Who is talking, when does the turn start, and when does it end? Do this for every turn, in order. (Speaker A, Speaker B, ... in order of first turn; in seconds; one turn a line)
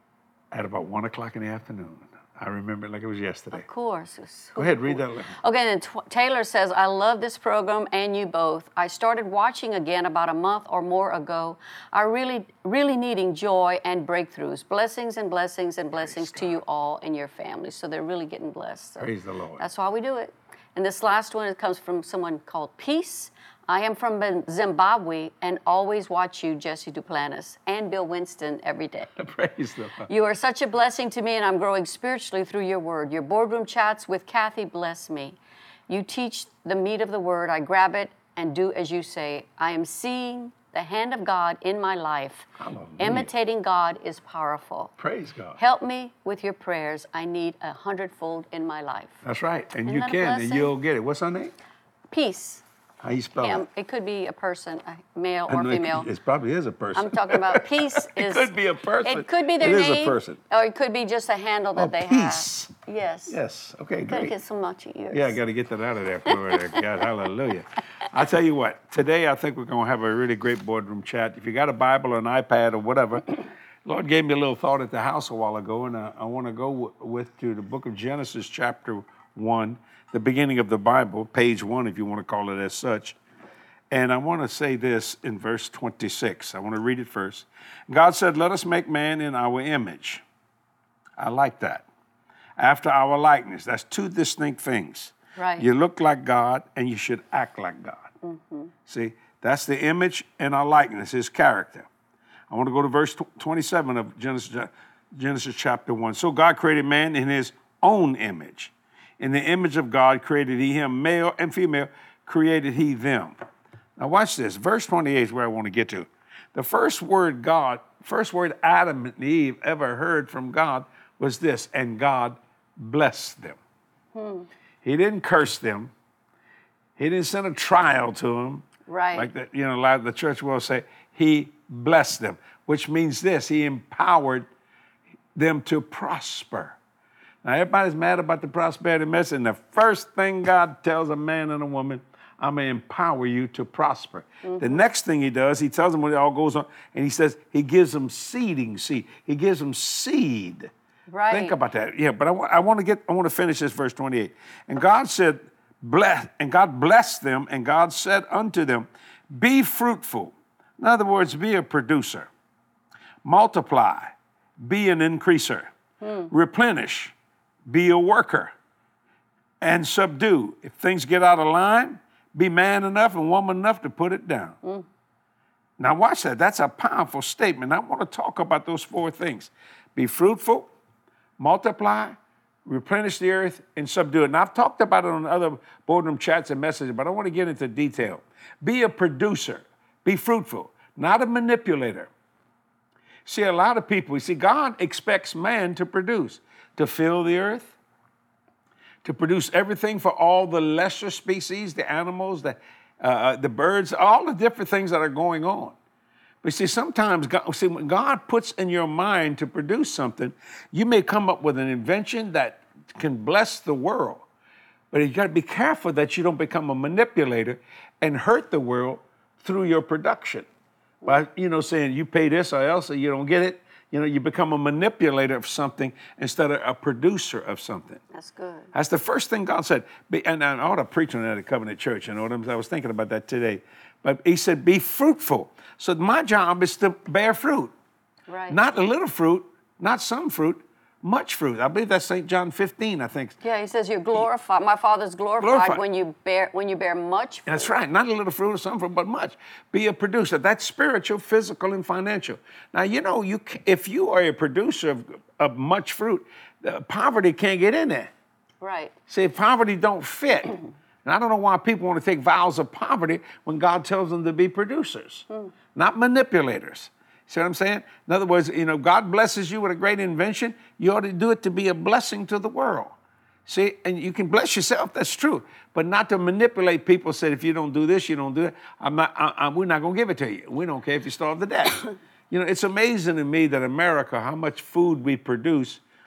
Speaker A: 0.5-3.6
Speaker B: 3.5-29.2
Speaker A: 4.5-5.4
Speaker A: 16.0-16.6
Speaker A: 19.0-19.6
Speaker A: 29.1-30.1
Speaker B: 30.1-44.9
Speaker A: 42.6-43.3
Speaker A: 45.0-45.6
Speaker B: 45.6-49.2
Speaker A: 49.2-51.5
Speaker B: 49.9-50.7
Speaker B: 52.1-52.6
Speaker A: 53.0-53.6
Speaker B: 53.4-56.1
Speaker A: 55.5-60.4
Speaker B: 56.9-58.5
Speaker B: 59.0-63.4
Speaker A: 61.8-62.7
Speaker A: 63.3-64.3
Speaker B: 64.1-65.4
Speaker A: 65.1-83.2
Speaker B: 66.2-66.9
Speaker A: 83.9-90.2
Speaker A: 91.2-91.9
Speaker A: 92.6-98.1
Speaker B: 95.4-95.7
Speaker B: 98.2-98.7
Speaker A: 98.8-101.9
Speaker A: 102.5-113.3
Speaker A: 114.0-123.6
Speaker B: 124.1-124.5
Speaker A: 124.8-125.9
Speaker A: 127.0-134.5
Speaker B: 128.9-129.3
Speaker A: 135.3-136.8
Speaker A: 137.4-150.7
Speaker B: 144.4-144.8
Speaker B: 151.1-151.5
Speaker A: 151.3-162.3
Speaker A: 163.2-165.7
Speaker B: 166.0-166.3
Speaker A: 166.3-167.1
Speaker A: 167.7-168.5
Speaker A: 169.6-174.6
Speaker A: 175.8-180.7
Speaker A: 181.4-192.1
Speaker A: 193.2-197.7
Speaker A: 199.0-205.8
Speaker A: 206.4-214.2
Speaker A: 214.9-220.5
Speaker A: 221.0-228.0
Speaker B: 228.1-228.7
Speaker A: 228.7-237.7
Speaker B: 238.3-238.6
Speaker A: 238.5-243.4
Speaker B: 243.4-247.7
Speaker A: 245.4-245.8
Speaker A: 247.5-258.1
Speaker B: 258.6-258.9
Speaker A: 259.1-272.9
Speaker A: 273.5-285.8